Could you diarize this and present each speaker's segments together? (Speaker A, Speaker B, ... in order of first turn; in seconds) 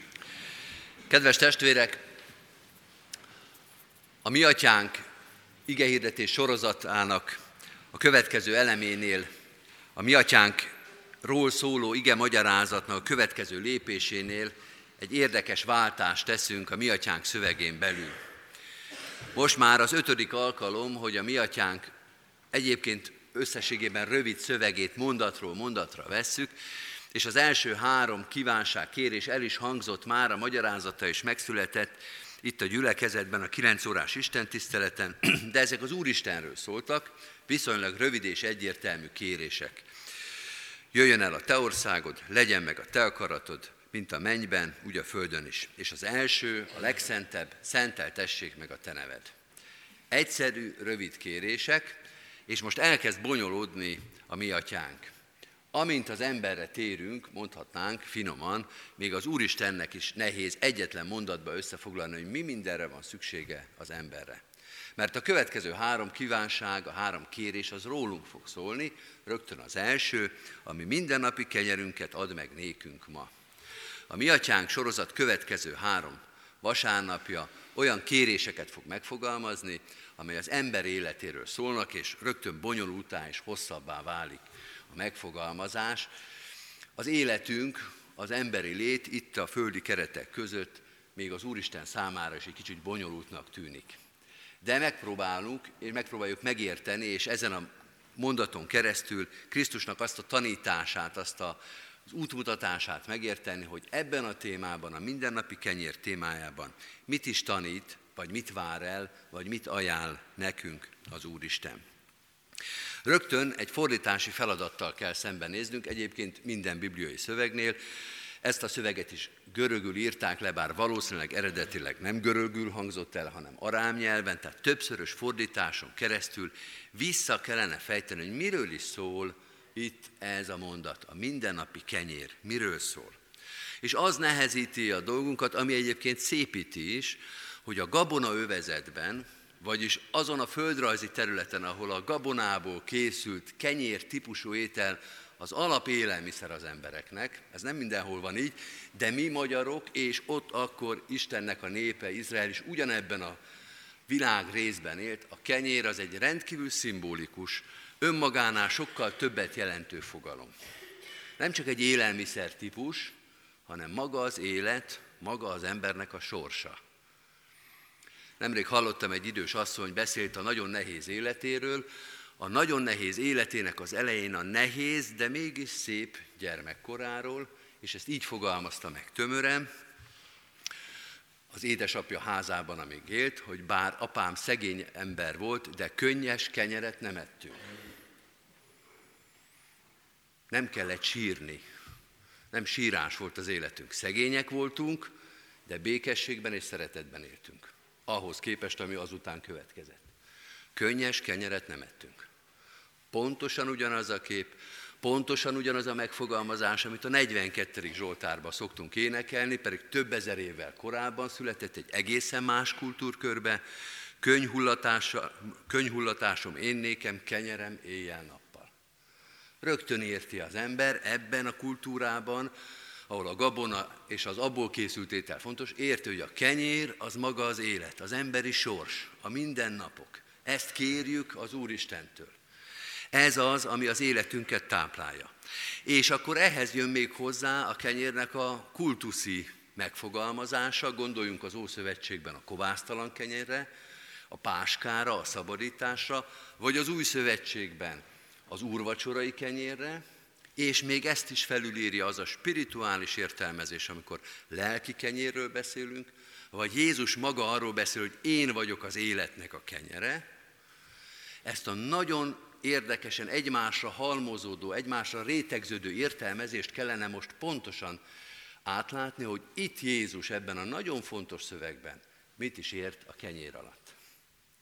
Speaker A: 1.1-2.0, 4.2-5.0, 5.7-7.4, 7.9-9.3, 9.9-10.7, 11.2-18.2, 19.4-21.9, 22.5-26.5, 27.1-39.9, 40.9-49.3, 50.1-52.0, 52.5-55.1, 55.7-64.4, 65.0-73.3, 74.1-86.1, 87.0-94.0, 94.6-111.8, 113.1-117.8, 118.4-133.2, 133.8-153.4, 154.1-160.5, 161.4-163.1, 163.7-166.8, 168.4-171.9, 172.4-179.7, 181.5-187.6, 190.5-191.6, 192.5-195.1, 195.7-200.1, 200.7-202.2, 203.1-213.6, 214.2-218.7, 219.6-222.5, 223.1-232.4, 233.1-235.3, 235.8-243.7, 244.3-250.0, 250.6-260.2, 261.4-268.0, 268.6-273.9